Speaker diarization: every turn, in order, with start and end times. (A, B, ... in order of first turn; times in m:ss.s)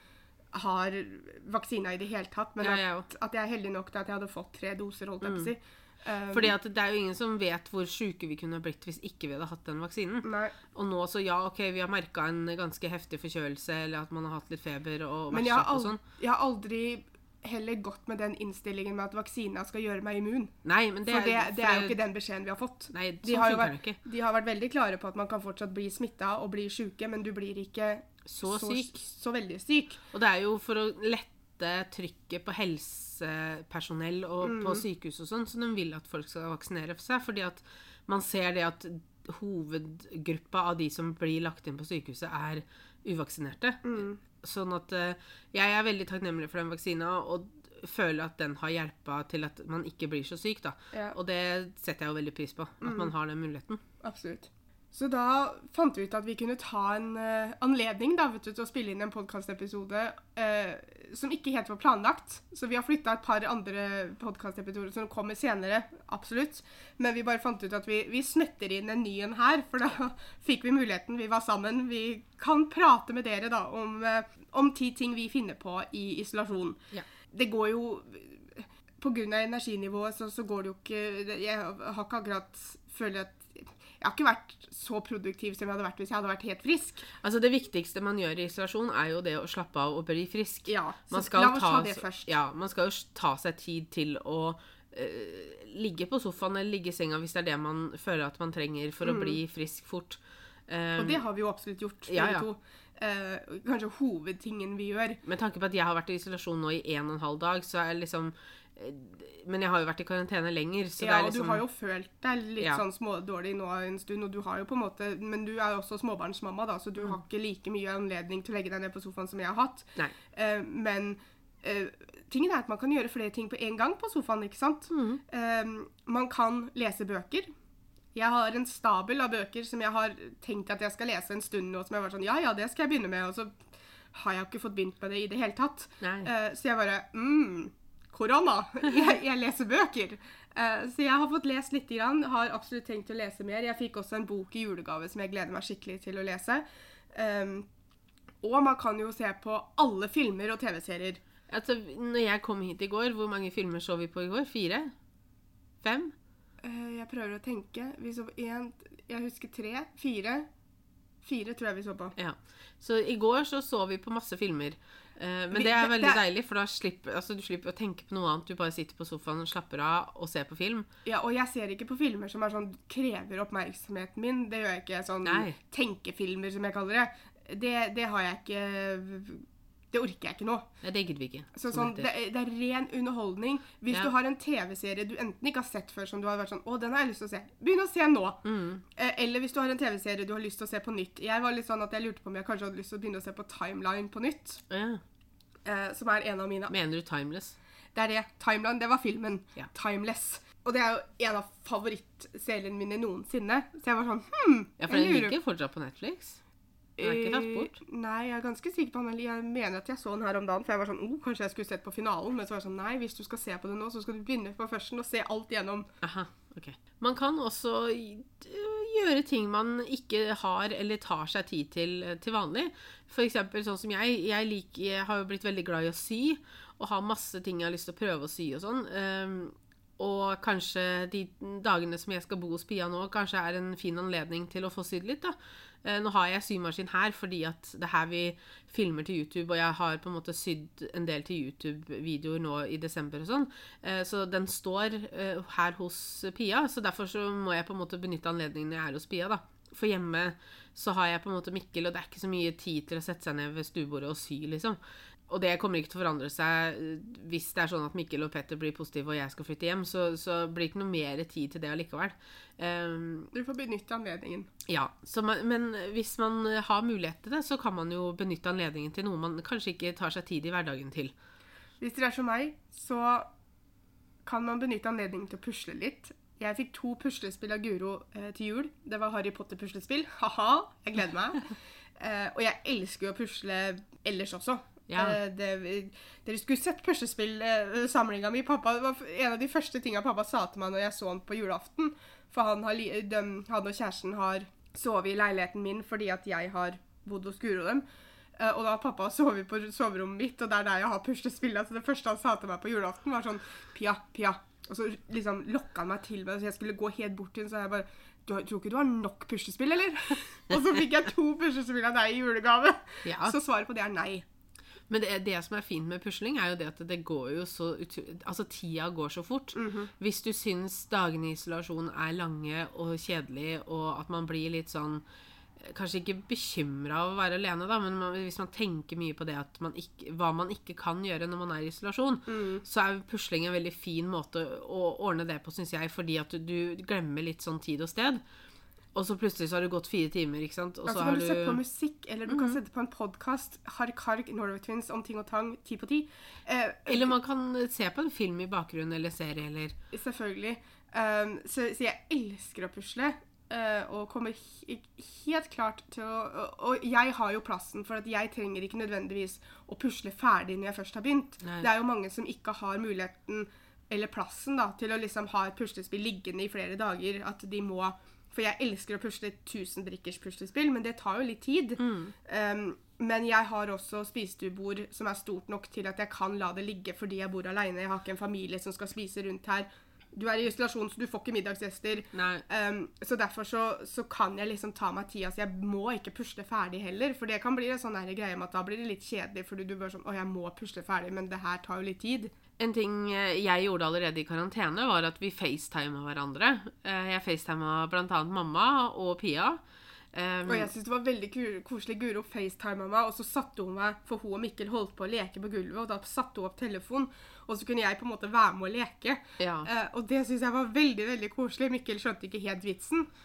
0:00.5-0:06.5 A
0:02.6-0:03.1 B
0:05.2-0:05.5 B
0:06.3-0:16.0 B
0:10.2-0:10.5 A
0:15.3-0:20.5 A
0:20.6-0:22.0 B
0:21.0-0:30.0 A
0:22.9-0:24.0 B
0:28.2-0:29.0 B
0:30.1-0:53.8 B
0:34.4-0:34.8 A
0:43.8-0:44.2 A
0:52.8-0:53.1 A
0:54.0-1:27.0 A
1:27.2-1:41.2 B
1:30.7-1:32.3 A
1:39.0-1:39.4 A
1:41.0-1:45.2 A
1:42.1-1:42.5 B
1:45.2-1:51.6 B
1:51.0-2:07.5 A
2:04.9-2:05.2 B
2:08.1-2:27.7 A
2:16.0-2:16.3 B
2:28.4-2:31.2 A
2:31.5-2:34.9 B
2:35.8-2:36.1 B
2:36.6-2:40.5 A
2:41.2-2:42.1 A
2:42.2-2:50.9 B
2:45.5-2:46.2 A
2:51.0-3:00.7 A
2:55.2-2:55.6 B
3:00.8-3:02.1 B
3:01.5-3:14.6 A
3:08.4-3:08.8 B
3:14.7-3:15.0 B
3:15.6-3:16.7 A
3:16.7-3:17.6 B
3:17.9-3:25.3 A
3:24.8-3:26.4 B
3:27.0-3:35.9 A
3:27.0-3:27.8 B
3:36.0-4:23.3 B
4:23.3-4:24.5 A
4:24.6-4:31.1 B
4:31.8-4:33.3 A
4:34.2-4:57.8 A
4:44.9-4:45.2 B
4:58.4-5:14.2 A
5:13.0-5:13.4 B
5:14.9-5:25.0 B
5:19.5-5:19.9 A
5:25.6-5:38.2 B
5:32.3-5:32.6 A
5:38.9-5:41.6 B
5:40.8-5:47.1 A
5:42.3-5:42.6 B
5:46.9-5:49.8 B
5:49.9-6:32.3 A
6:11.8-6:12.1 B
6:22.1-6:22.4 B
6:32.6-6:39.6 B
6:40.1-6:40.7 B
6:40.5-6:53.1 A
6:49.4-6:49.7 B